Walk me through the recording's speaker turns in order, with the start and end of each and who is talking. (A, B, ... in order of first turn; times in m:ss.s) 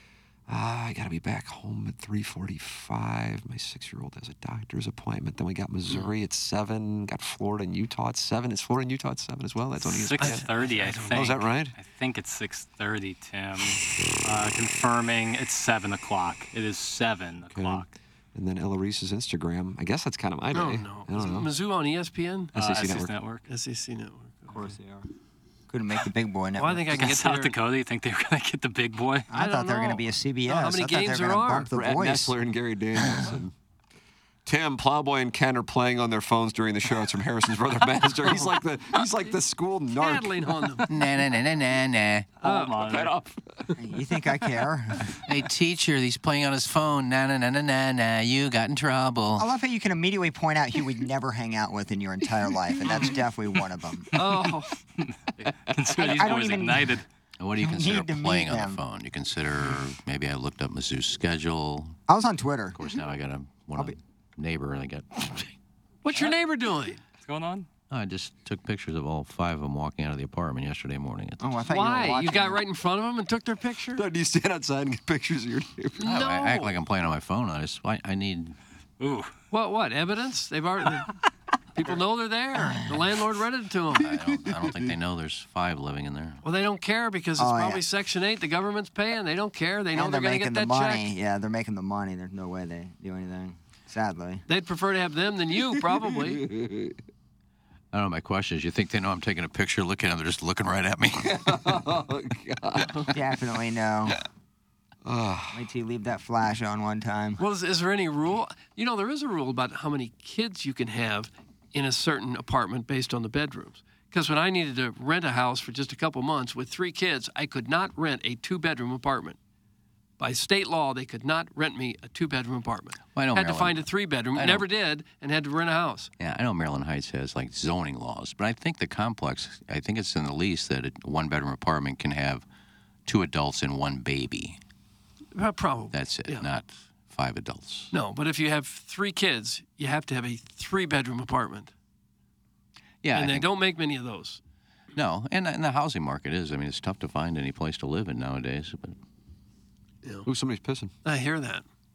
0:00.5-0:11.7 A
0:09.9-0:17.8 B
0:10.2-0:11.3 C
0:17.5-0:21.5 A
0:20.5-0:22.5 C
0:22.5-0:23.1 A
0:22.6-0:23.4 B
0:23.5-0:24.7 C
0:24.6-0:25.0 D
0:25.7-0:27.2 D
0:26.6-0:27.5 C
0:27.0-0:29.3 B
0:29.3-0:32.3 D
0:29.3-0:31.7 C
0:31.7-0:33.5 A
0:34.4-0:40.6 A
0:40.0-0:40.8 C
0:40.9-0:42.3 E
0:42.4-0:43.1 B
0:42.4-0:42.7 C
0:42.8-0:43.8 A
0:43.8-0:45.1 D
0:45.2-0:49.5 E
0:49.4-0:54.1 D
0:54.1-0:54.8 C
0:55.6-0:57.0 B
0:55.9-0:57.0 D
0:57.4-1:02.0 E
0:57.6-0:58.8 D
1:02.1-1:02.8 D
1:02.7-1:05.5 E
1:06.0-1:07.0 C
1:07.2-1:07.7 B
1:07.9-1:11.4 E
1:11.4-1:12.6 D
1:11.7-1:14.0 C
1:14.0-1:16.0 A
1:16.0-1:16.8 C
1:16.0-1:18.6 E
1:19.0-1:19.3 B
1:19.5-1:21.1 C
1:21.7-1:24.1 C
1:23.9-1:26.4 E
1:24.6-1:24.9 A
1:26.4-1:31.1 C
1:27.4-1:27.8 D
1:29.9-1:34.4 D
1:34.5-1:36.4 C
1:36.2-1:36.9 A
1:37.9-1:41.8 E
1:41.3-1:43.1 A
1:43.1-1:44.2 D
1:45.0-1:45.6 A
1:45.5-1:47.4 D
1:47.4-1:59.4 C
2:00.2-2:06.1 C
2:03.1-2:04.7 E
2:06.2-2:12.4 E
2:13.0-2:14.6 E
2:15.3-2:16.5 C
2:15.9-2:17.9 E
2:17.9-2:21.7 C
2:23.0-2:23.5 E
2:23.1-2:24.4 C
2:24.9-2:29.0 E
2:30.2-2:30.9 A
2:31.0-2:31.6 C